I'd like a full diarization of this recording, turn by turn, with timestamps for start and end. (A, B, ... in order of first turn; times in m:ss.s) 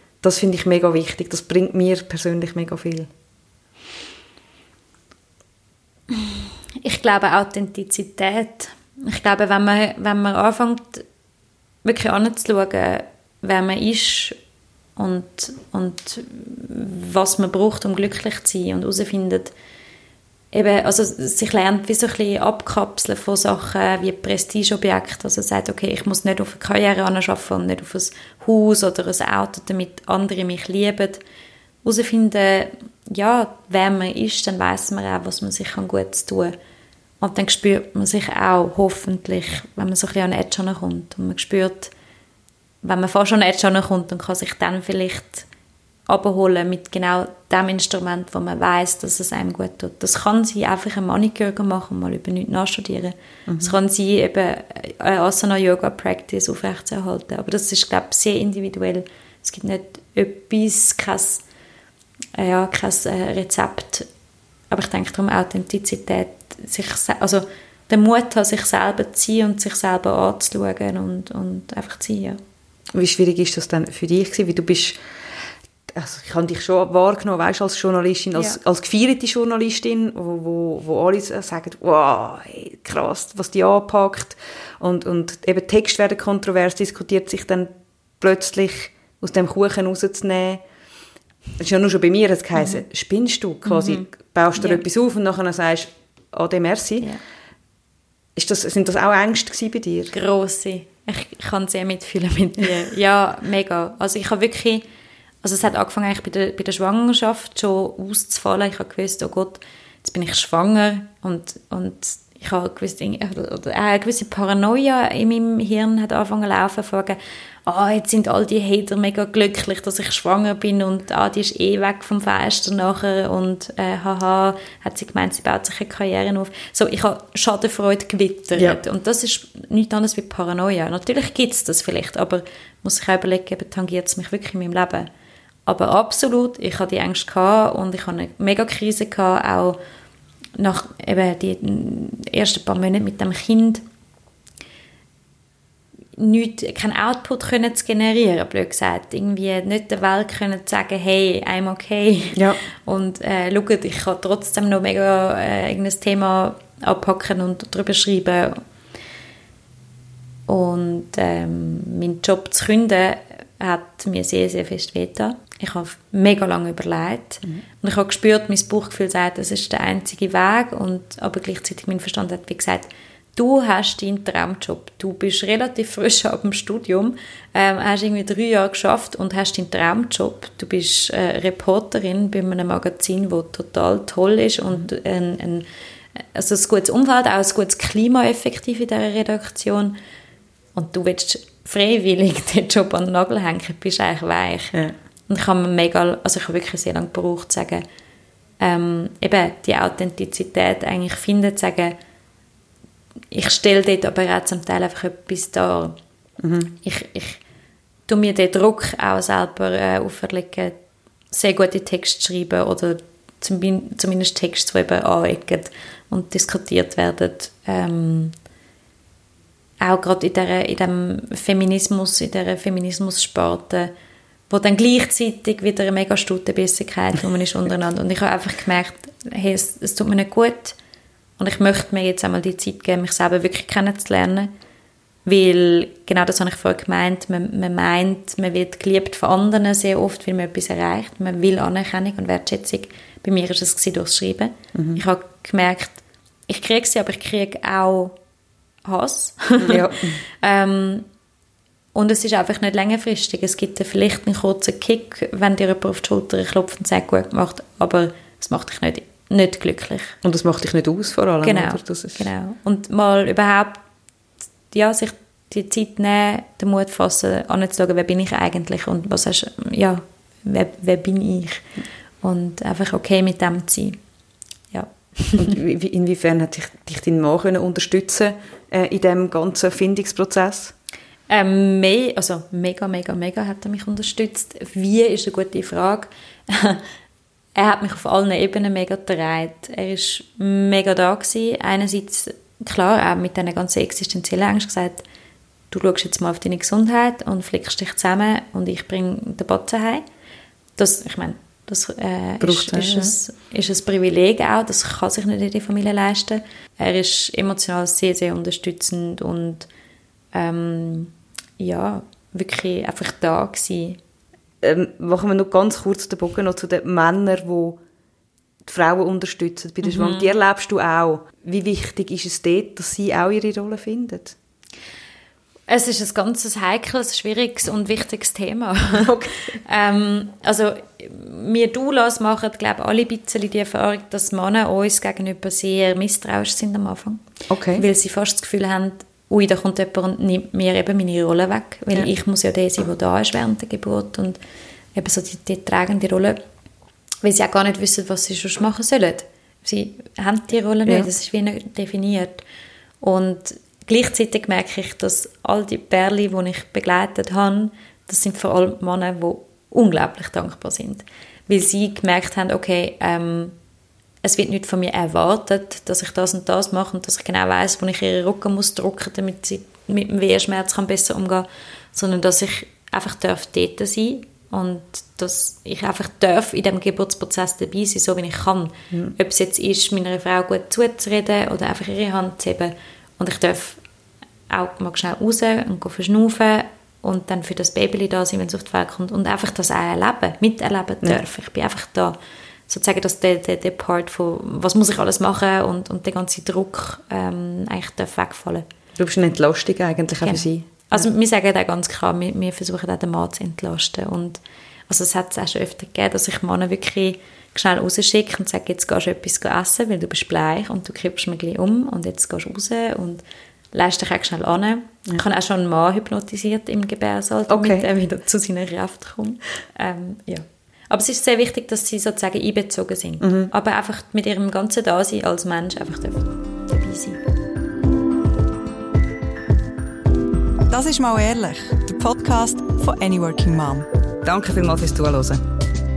0:00.2-0:03.1 A
0:06.1-0:11.0 B
0:11.8-0:14.4 B
0:15.0-0:19.5 B
0:20.5-0:31.2 B
0:31.8-0:36.6 B
0:37.2-0:41.9 B
0:42.8-0:45.5 B
0:46.1-1:01.4 B
0:53.5-0:53.8 A
1:02.4-1:04.1 B
1:04.7-1:12.4 B
1:12.9-1:15.0 A
1:15.9-1:30.6 A
1:31.6-1:37.1 A
1:33.7-1:34.8 B
1:38.4-1:40.1 A
1:40.1-1:44.9 B
1:45.4-2:15.1 B
2:15.7-2:19.8 B
2:20.6-2:23.8 B
2:26.2-2:38.6 B
2:32.4-2:32.6 A
2:40.5-3:10.0 B
3:10.8-3:17.8 B
3:18.6-3:22.0 B
3:23.3-3:26.0 B
3:26.4-3:26.7 A
3:26.8-3:27.4 B
3:28.1-3:30.8 B
3:31.3-3:38.4 B
3:39.8-3:43.9 B
3:44.5-3:50.8 B
3:51.4-3:54.5 B
3:55.3-4:08.2 B
4:04.8-4:05.0 A
4:08.8-4:11.1 B
4:09.6-4:10.2 A
4:11.9-4:20.2 B
4:20.2-4:22.3 A
4:21.4-4:23.8 B
4:24.7-4:31.7 B
4:32.2-4:34.0 B
4:34.7-4:35.6 B
4:35.4-4:40.7 A
4:41.3-4:46.8 B
4:47.6-4:55.0 B
4:55.7-5:00.0 B
5:00.8-5:09.7 B
5:02.4-5:03.1 A
5:10.3-5:14.0 B
5:14.6-5:17.8 A
5:18.6-5:24.4 A
5:19.8-5:20.3 B
5:25.7-5:44.4 B
5:28.9-5:29.6 A
5:37.5-5:37.8 A
5:45.0-5:46.4 B
5:47.2-5:52.4 B
5:53.0-6:03.6 B
6:04.2-6:23.8 B
6:24.5-6:32.2 B
6:32.7-6:38.7 B
6:39.0-6:41.0 A
6:40.2-7:07.2 B
6:57.5-6:57.9 A
7:03.2-7:03.5 A
7:10.7-7:13.9 C
7:14.2-7:15.4 A